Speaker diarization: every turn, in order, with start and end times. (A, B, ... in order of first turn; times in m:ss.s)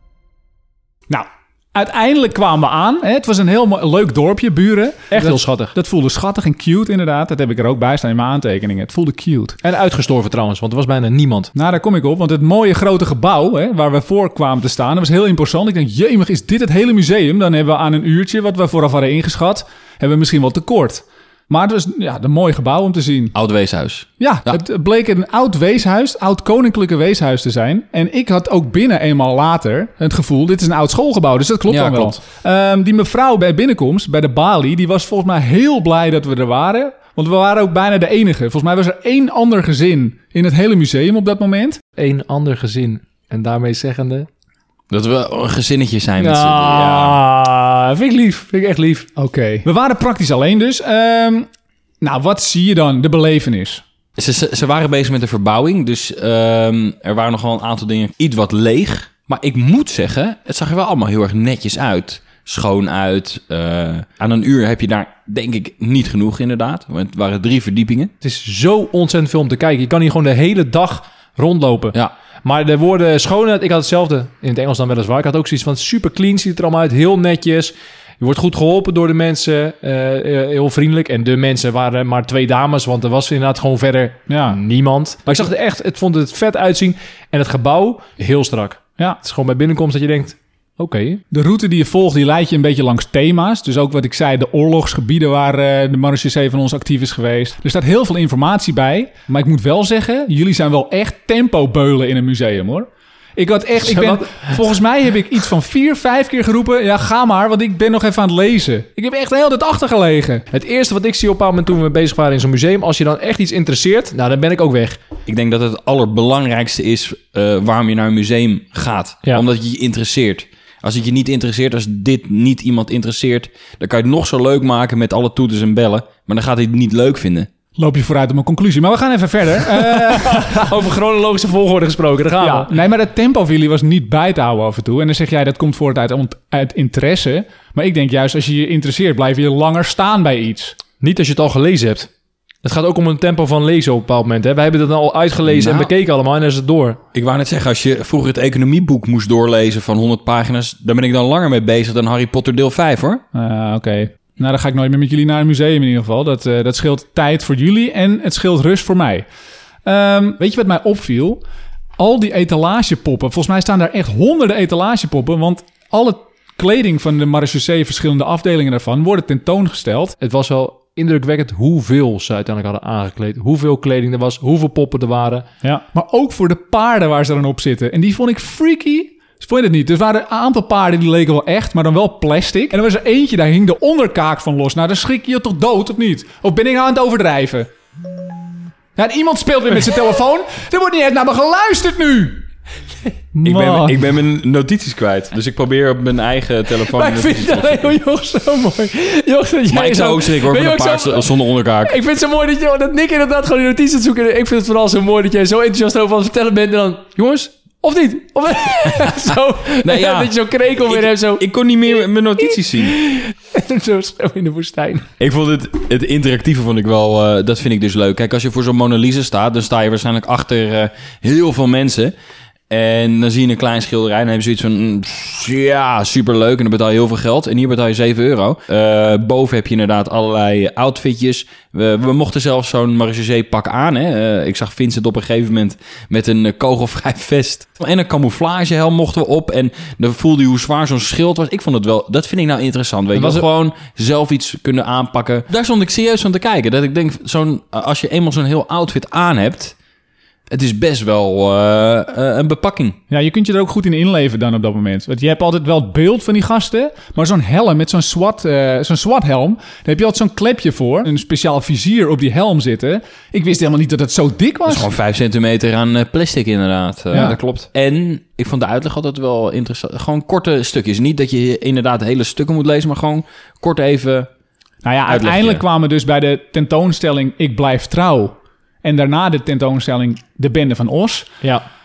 0:01.1-0:09.6 A
0:05.1-0:05.7 B
0:09.6-0:11.5 B
0:11.6-0:23.4 A
0:23.4-0:24.6 C
0:24.2-0:41.8 A
0:31.7-0:32.2 C
0:42.0-0:44.3 B
0:44.9-0:47.2 C
0:46.2-0:49.1 B
0:49.2-0:51.5 A
0:52.0-0:53.8 A
0:54.2-1:08.1 C
1:08.2-1:31.2 B
1:24.3-1:24.6 A
1:25.3-1:25.5 A
1:31.3-1:50.4 A
1:43.8-1:44.6 B
1:50.5-1:55.0 B
1:55.3-2:07.5 C
2:07.8-2:10.7 A
2:09.7-2:12.7 B
2:12.4-2:20.8 A
2:21.0-2:22.1 B
2:22.6-2:27.0 B
2:25.4-2:25.9 C
2:27.1-2:33.2 C
2:33.3-2:39.3 A
2:39.8-2:41.4 A
2:42.0-2:50.2 A
2:50.2-2:55.5 B
2:55.6-3:07.7 A
3:09.0-3:12.5 A
3:13.4-3:14.0 A
3:13.4-3:18.0 C
3:16.9-3:35.1 B
3:19.7-3:22.0 C
3:29.8-3:30.3 C
3:30.8-3:33.0 C
3:35.2-3:42.1 C
3:42.7-4:09.8 C
4:03.2-4:03.5 B
4:10.5-4:13.0 C
4:13.1-4:24.9 A
4:24.7-4:34.3 C
4:27.1-4:27.4 A
4:34.8-4:41.3 A
4:35.1-4:35.6 C